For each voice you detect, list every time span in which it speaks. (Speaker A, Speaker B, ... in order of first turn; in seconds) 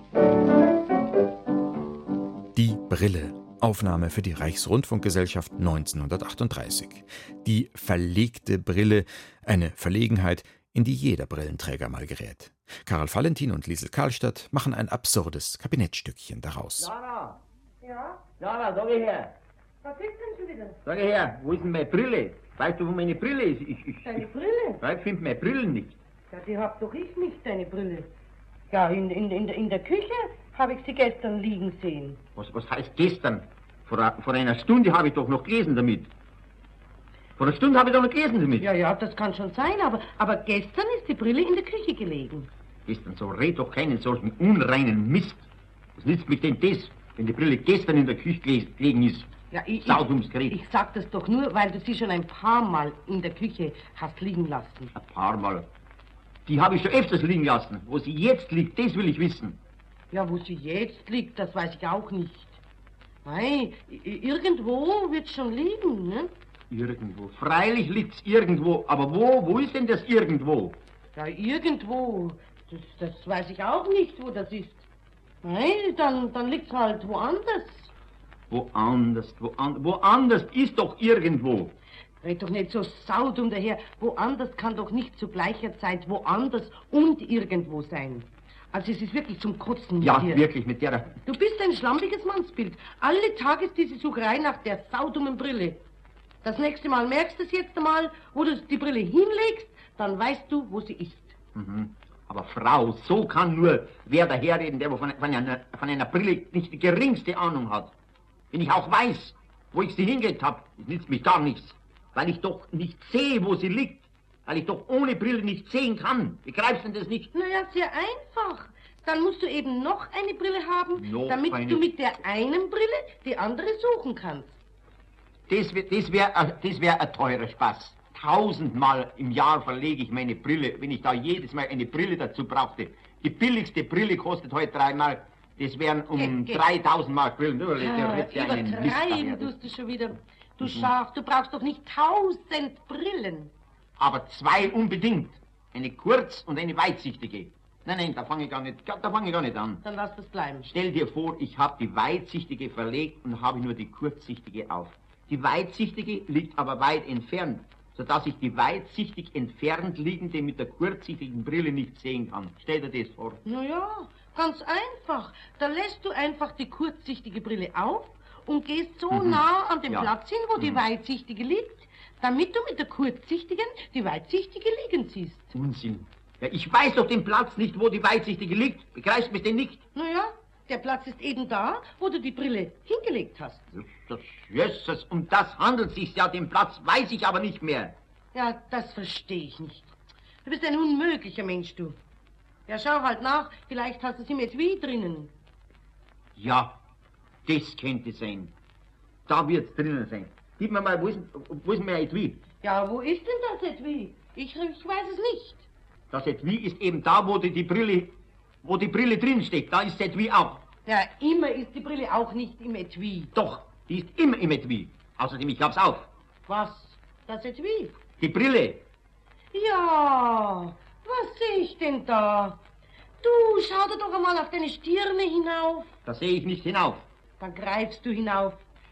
Speaker A: 2.5-16.9
Speaker B: 16.8-17.4, 18.4-19.3, 20.8-24.3, 24.8-25.9, 32.4-36.1, 37.4-38.7, 42.9-45.5, 46.0-49.3, 49.8-50.6, 54.9-55.6, 56.5-59.6, 66.7-70.8, 78.5-81.7, 90.0-91.1, 101.5-107.9, 108.5-117.3, 121.0-121.9, 125.5-139.5, 140.6-140.9, 144.0-149.8, 150.7-163.4, 169.1-170.8, 175.5-179.8, 183.7-187.9, 196.3-196.7, 197.4-198.5, 199.3-202.4, 206.1-210.6, 213.3-216.1, 218.2-218.8, 226.1-227.0
Speaker C: 17.8-18.2, 19.8-20.8, 24.0-24.8, 26.3-28.1, 28.7-32.2, 38.6-42.5, 49.5-54.9, 60.1-62.6, 63.2-66.3, 71.1-74.8, 75.4-77.9, 82.2-90.4, 91.2-95.8, 96.4-101.3, 117.3-124.6, 136.1-136.6, 137.8-143.5, 149.8-150.7, 163.4-175.5, 179.9-183.7, 188.3-189.9, 190.4-192.0, 192.7-195.3, 202.6-205.6, 210.8-213.3, 216.5-217.9, 219.5-222.6, 223.2-225.9, 227.4-228.6